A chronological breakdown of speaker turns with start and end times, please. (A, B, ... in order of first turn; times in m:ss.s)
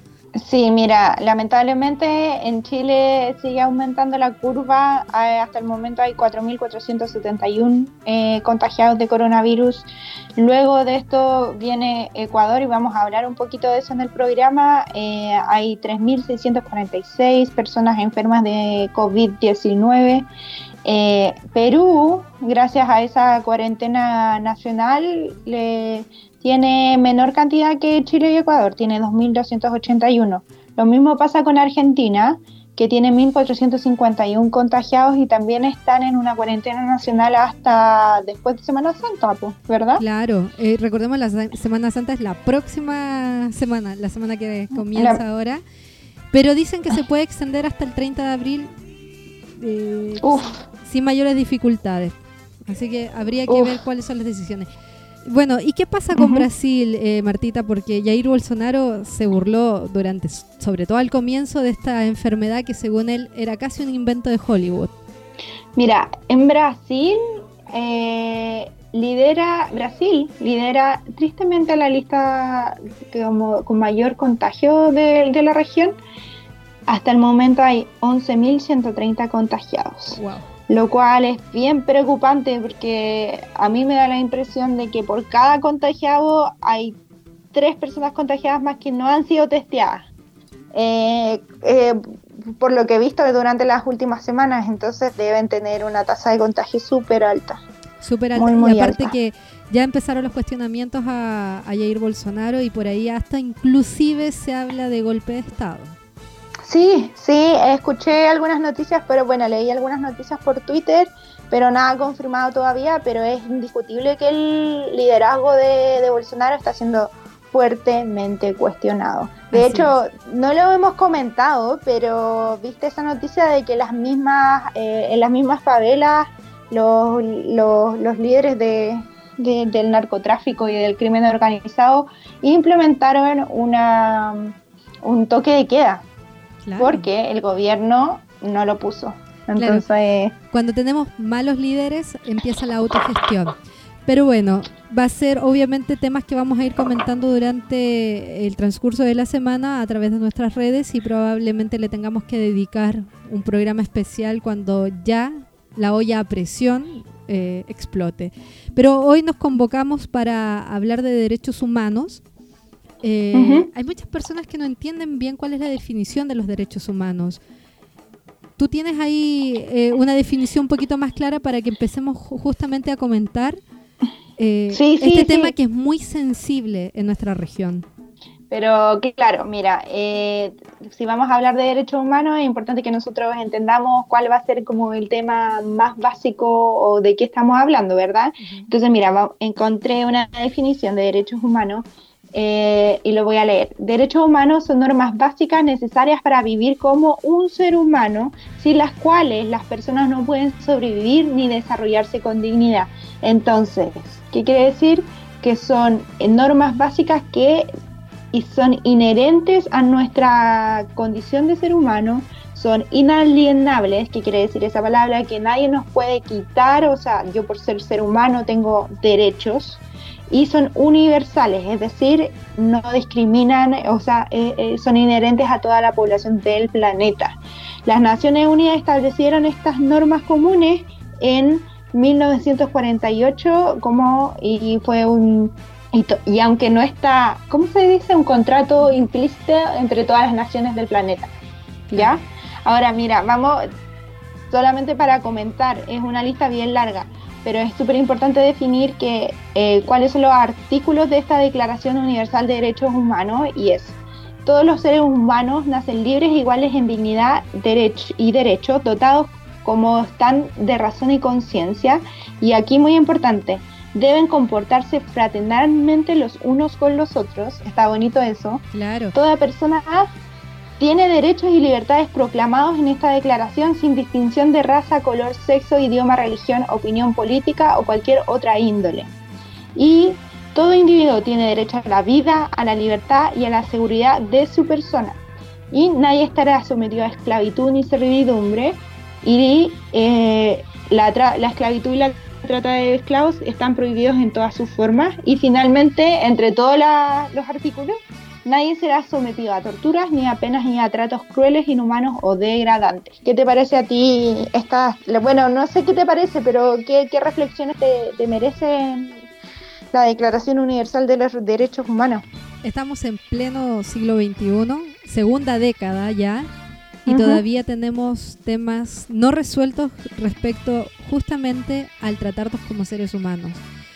0:00.4-0:20.3 A
0:20.8-0:40.0 A
0:40.0-0:45.6 B
0:44.9-0:45.2 A
0:46.3-0:48.7 B
0:49.6-0:54.7 B
0:50.2-0:50.6 A
0:53.5-0:53.8 A
0:55.2-1:04.9 B
0:56.1-0:56.5 A
1:05.8-1:16.0 A
1:16.9-1:27.0 A
1:20.1-1:20.5 B
1:27.5-1:30.1 A
1:30.7-1:37.6 A
1:38.0-1:46.0 B
1:38.4-1:39.1 A
1:46.6-2:16.0 A
1:59.5-2:00.0 B
2:16.6-2:17.1 B
2:16.8-2:20.4 A
2:19.6-2:19.8 B
2:20.5-2:42.2 B
2:43.0-2:47.4 B
2:43.3-2:43.7 A
2:48.6-2:53.6 B
2:54.4-2:57.9 B
2:54.7-2:55.5 A
2:58.5-3:27.7 A
3:08.4-3:08.7 B
3:28.3-4:01.3 A
4:01.9-4:02.2 B
4:02.0-4:03.7 A
4:04.5-4:28.6 A
4:28.7-4:29.2 B
4:29.1-4:30.1 A
4:30.8-4:39.1 A
4:39.8-4:45.2 A
4:45.7-5:09.2 A
5:09.9-5:12.2 A
5:12.6-5:16.5 B
5:17.1-5:23.6 B
5:17.1-5:17.4 A